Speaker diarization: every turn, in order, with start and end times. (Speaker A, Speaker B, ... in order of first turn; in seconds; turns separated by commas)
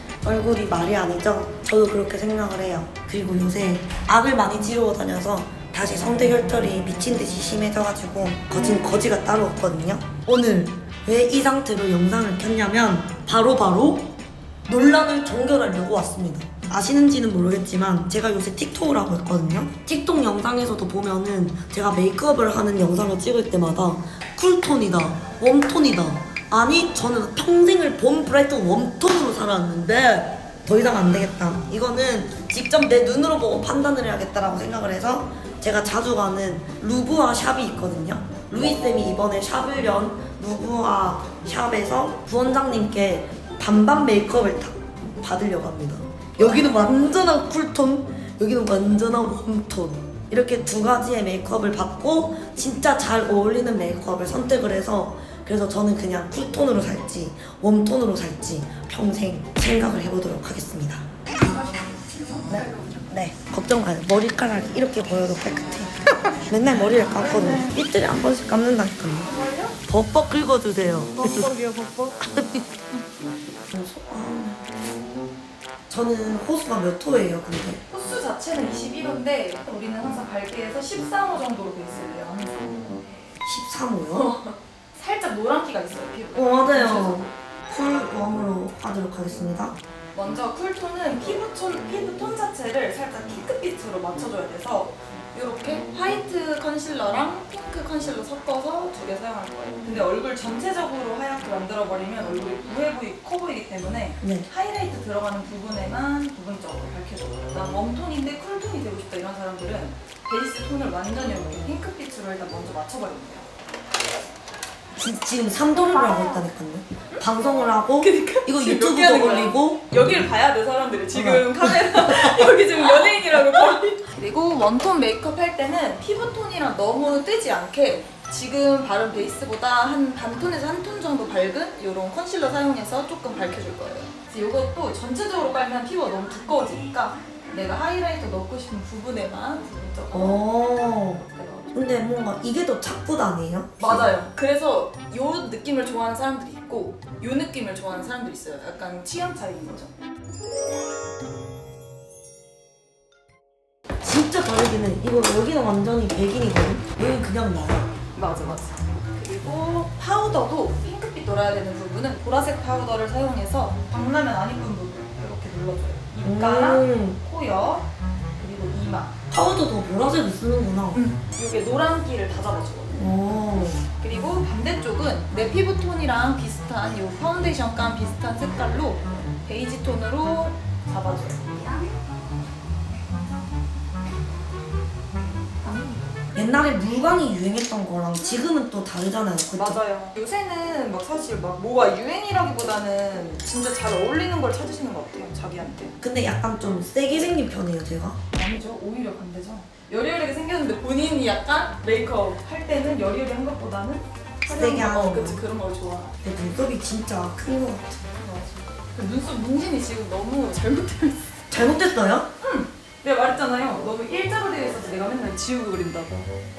Speaker A: 0.2-14.1, Speaker A: 14.7-61.5, Speaker B: 62.3-62.7, Speaker A: 62.5-69.3, Speaker B: 69.2-69.8, Speaker A: 69.9-71.5, Speaker B: 71.4-72.2, Speaker A: 72.2-72.7, Speaker A: 73.7-74.7, Speaker A: 75.9-77.8, Speaker B: 77.9-82.8, Speaker A: 83.4-84.3, Speaker B: 84.1-87.3, Speaker A: 86.3-89.8, Speaker B: 90.1-113.5, Speaker A: 104.2-104.5, Speaker A: 115.0-119.9, Speaker B: 118.0-140.4, Speaker A: 121.1-122.3, Speaker A: 140.1-144.1, Speaker B: 141.1-141.8, Speaker B: 143.8-149.9, Speaker A: 154.0-157.9, Speaker B: 158.1-169.1, Speaker A: 166.2-167.2, Speaker A: 169.3-171.0, Speaker B: 170.9-173.1, Speaker A: 172.9-173.8, Speaker B: 173.9-181.6, Speaker A: 186.3-189.8, Speaker B: 189.6-195.9, Speaker A: 196.0-198.2, Speaker B: 198.3-206.1, Speaker A: 204.4-205.4, Speaker A: 206.2-208.1, Speaker B: 208.2-211.4, Speaker A: 211.5-212.3, Speaker B: 212.4-216.2